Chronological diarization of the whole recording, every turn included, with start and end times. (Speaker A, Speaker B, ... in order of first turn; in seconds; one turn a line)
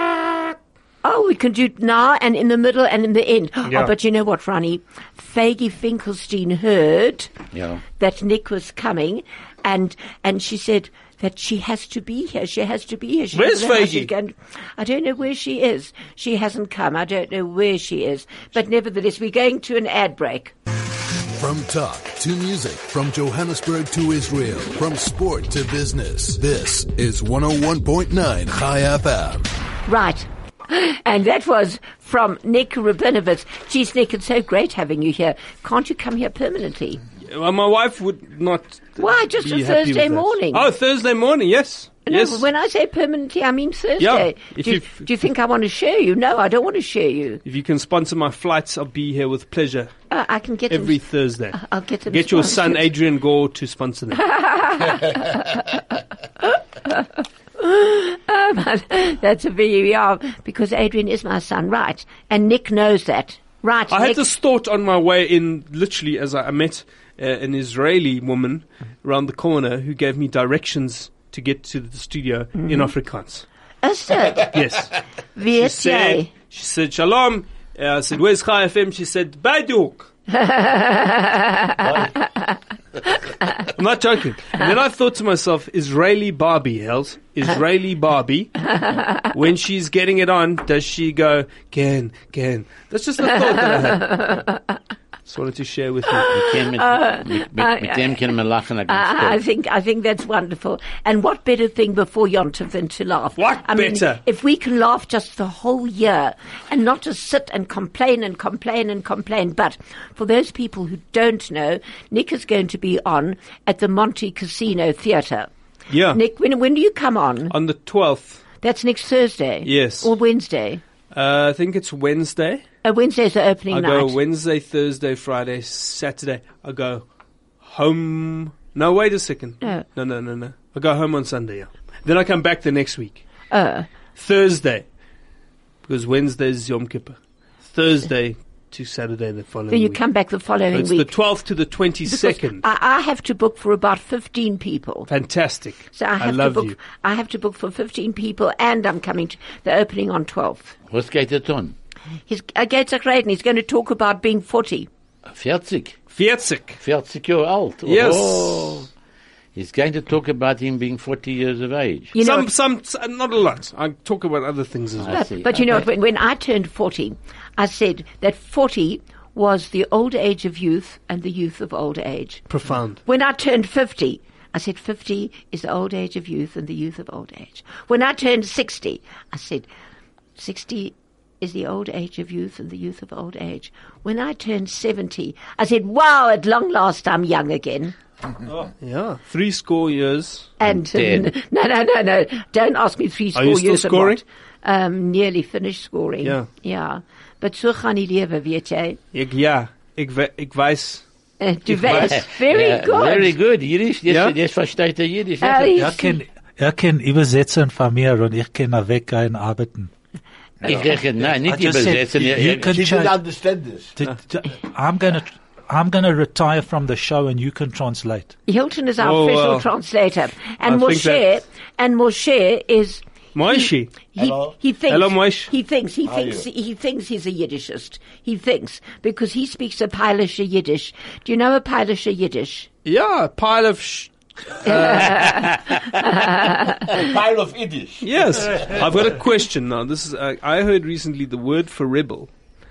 Speaker A: 1.0-7.3
Speaker B: 7.5-7.8
Speaker A: 8.0-20.5
Speaker C: 13.3-14.1
Speaker D: 21.3-29.5
Speaker A: 29.9-37.0
Speaker C: 37.2-42.5
Speaker A: 39.0-40.6
Speaker A: 42.1-47.4
Speaker C: 44.0-45.1
Speaker C: 47.4-49.9
Speaker A: 50.1-52.8
Speaker C: 50.7-54.4
Speaker A: 54.2-55.8
Speaker A: 56.4-64.2
Speaker C: 63.9-73.4
Speaker A: 72.6-72.9
Speaker A: 73.8-74.5
Speaker C: 74.4-80.1
Speaker A: 75.3-76.3
Speaker A: 80.3-82.5
Speaker C: 83.5-94.4
Speaker A: 94.0-94.5
Speaker C: 95.2-96.3
Speaker A: 96.1-98.3
Speaker B: 96.3-99.4
Speaker A: 98.9-115.5
Speaker C: 103.4-104.2
Speaker C: 115.9-116.2
Speaker A: 116.1-117.5
Speaker C: 117.5-118.4
Speaker A: 118.6-120.8
Speaker C: 119.6-120.1
Speaker C: 121.1-122.6
Speaker A: 122.8-124.2
Speaker C: 123.7-127.0
Speaker C: 127.6-133.2
Speaker A: 133.5-133.9
Speaker C: 134.1-134.8
Speaker C: 135.8-140.0
Speaker A: 139.7-141.1
Speaker C: 140.7-142.6
Speaker A: 142.1-145.1
Speaker C: 145.1-146.7
Speaker A: 145.9-150.8
Speaker B: 150.9-151.7
Speaker A: 152.3-154.9
Speaker B: 155.2-156.0
Speaker C: 156.1-156.8
Speaker B: 156.8-158.9
Speaker C: 157.8-158.8
Speaker B: 159.5-162.1
Speaker A: 162.1-162.5
Speaker C: 162.2-165.2
Speaker B: 165.0-165.8
Speaker A: 165.1-172.4
Speaker C: 172.5-173.0
Speaker A: 173.0-179.7
Speaker A: 180.4-187.9
Speaker C: 188.4-190.5
Speaker A: 190.6-199.0
Speaker B: 190.6-191.3
Speaker C: 193.3-194.2
Speaker C: 196.2-196.5
Speaker C: 199.1-201.0
Speaker A: 201.4-203.3
Speaker C: 201.7-202.2
Speaker B: 201.8-205.8
Speaker C: 204.1-204.3
Speaker A: 205.4-206.2
Speaker E: 205.7-209.9
Speaker F: 210.6-211.3
Speaker B: 210.6-212.8
Speaker E: 211.4-213.2
Speaker F: 212.2-213.9
Speaker E: 214.0-218.3
Speaker A: 218.5-232.7
Speaker C: 219.0-219.7
Speaker C: 220.6-221.3
Speaker C: 223.3-224.0
Speaker F: 224.2-224.5
Speaker C: 224.9-225.5
Speaker F: 226.0-226.5
Speaker C: 232.8-235.6
Speaker A: 234.6-237.0
Speaker F: 236.8-239.2
Speaker C: 238.0-242.3